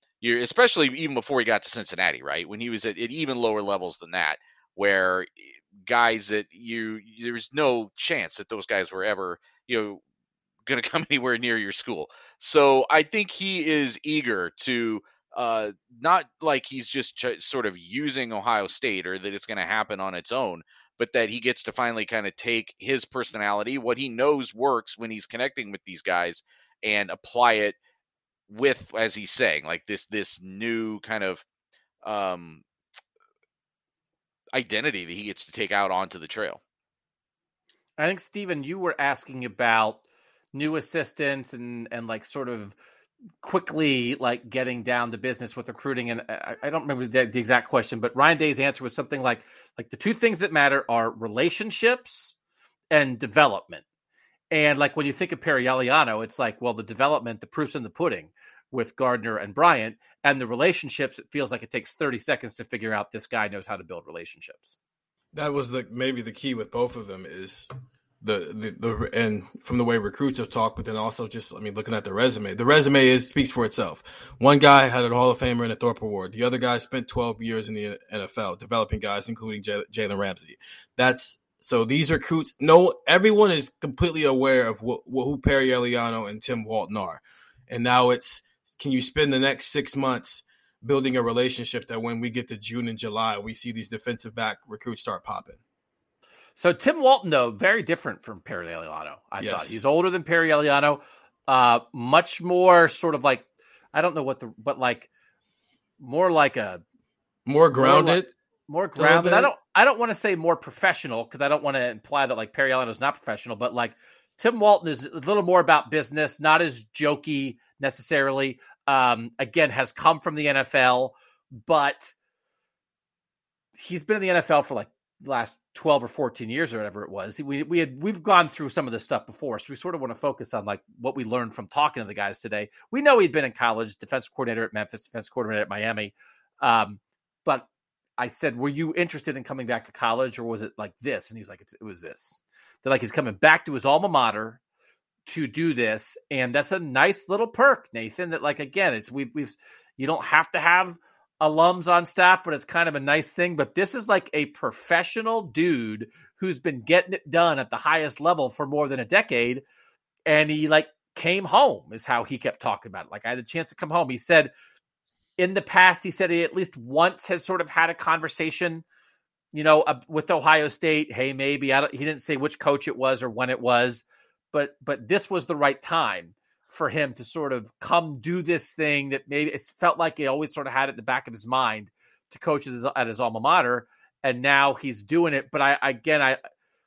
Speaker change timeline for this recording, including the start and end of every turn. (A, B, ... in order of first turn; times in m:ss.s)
0:00.2-0:10.0 A
0:10.6-0:27.8 A
0:28.5-0:31.4 A
0:32.0-0:32.6 A
0:34.5-0:36.6 A
0:38.0-0:40.0 B
0:40.5-0:42.8 B
0:43.4-0:52.3 B
0:52.9-0:53.8 B
0:54.5-1:04.8 B
1:05.3-1:07.7 C
1:08.2-1:35.6 C
1:36.6-1:45.1 B
1:39.4-1:39.8 C
1:46.0-1:46.8 B
1:47.4-1:48.3 C
1:47.7-2:02.1 B
1:49.0-1:49.5 C
2:03.7-2:17.7 B
2:18.2-2:24.6 B
2:25.2-2:39.6 B
2:40.2-2:44.5 B
2:45.4-2:48.8 B
2:49.5-3:06.4 B